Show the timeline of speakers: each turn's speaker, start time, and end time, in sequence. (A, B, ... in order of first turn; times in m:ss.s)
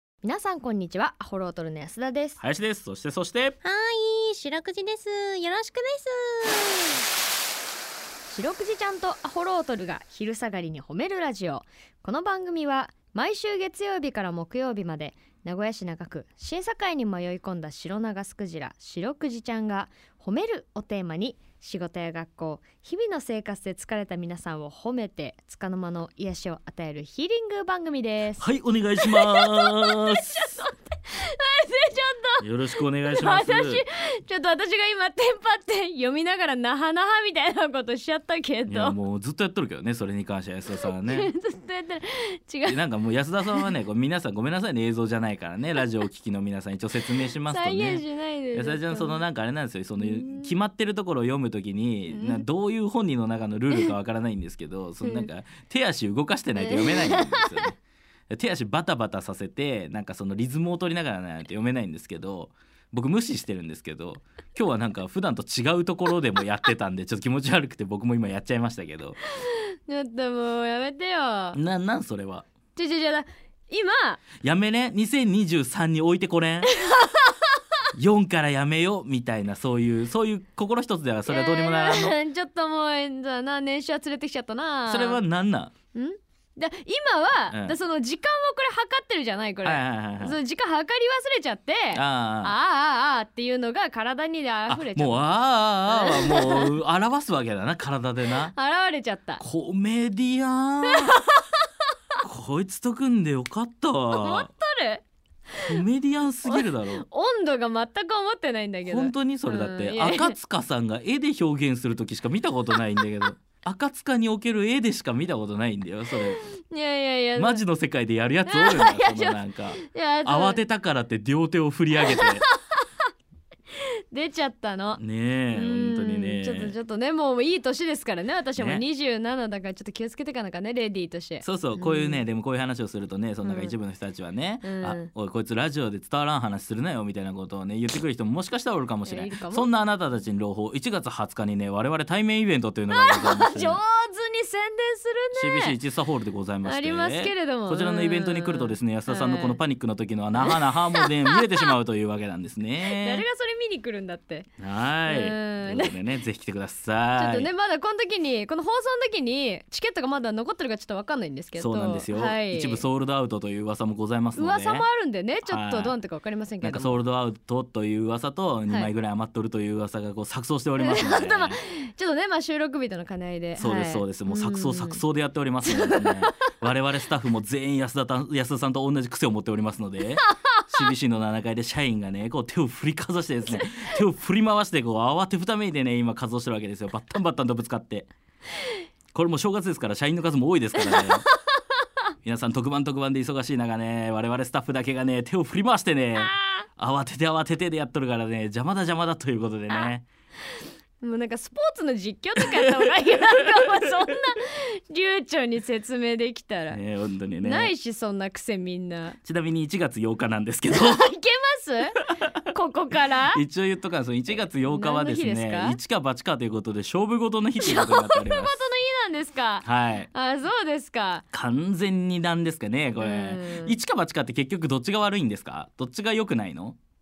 0:00.2-0:02.4 A
0:02.4-0:03.6 B
0:03.6-0:07.0 C
0:08.3-0:32.4 A
0:28.4-0:30.6 B
0:32.4-0:33.8 B
0:33.1-0:39.0 A
0:38.7-0:41.3 B
0:40.8-0:42.8 A
0:42.7-0:57.8 B
0:47.5-0:49.2 A
0:50.0-0:50.5 A
0:52.1-0:52.4 A
0:55.0-0:55.3 A
0:56.6-0:57.7 A
0:58.3-1:09.2 B
1:09.4-1:11.6 A
1:11.5-1:12.5 B
1:12.8-1:14.2 A
1:14.4-1:16.7 B
1:16.6-1:17.4 A
1:18.0-1:22.2 B
1:21.3-1:25.2 A
1:24.9-1:25.7 B
1:25.9-1:35.2 A
1:27.5-1:27.8 B
1:29.6-1:30.4 B
1:31.9-1:32.6 B
1:34.7-1:38.5 B
1:35.9-1:36.8 A
1:38.5-1:39.4 A
1:39.4-1:41.2 B
1:40.9-1:41.4 A
1:42.2-1:44.5 B
1:44.1-1:45.7 A
1:45.7-1:47.1 B
1:46.4-1:50.4 A
1:48.8-1:56.4 B
1:56.4-1:57.6 A
1:57.4-2:02.5 B
1:58.5-2:00.6 A
2:04.1-2:12.2 A
2:05.0-2:06.8 B
2:08.6-2:08.8 B
2:11.4-2:23.8 B
2:13.4-2:13.8 A
2:14.6-2:15.1 A
2:19.1-2:19.7 A
2:22.9-2:25.8 A
2:25.4-2:33.2 B
2:26.6-2:29.6 A
2:30.4-2:31.7 A
2:32.8-2:34.5 A
2:34.6-2:37.5 B
2:35.1-2:36.0 A
2:37.2-2:42.8 A
2:41.6-2:44.9 B
2:44.4-2:47.0 A
2:45.5-2:46.0 B
2:46.6-2:51.6 B
2:50.8-2:55.0 A
2:53.6-3:08.1 B
2:55.6-2:56.4 A
3:09.1-3:11.3 B
3:10.8-3:11.1 A
3:12.2-3:20.1 B
3:16.2-3:16.6 A
3:21.0-3:26.8 A
3:26.7-3:27.7 B
3:27.4-3:29.2 A
3:29.2-3:31.1 B
3:30.7-3:33.4 A
3:33.3-3:38.7 B
3:34.6-3:35.8 A
3:37.6-3:41.2 A
3:39.6-3:40.1 B
3:41.3-3:46.8 B
3:43.0-3:43.8 A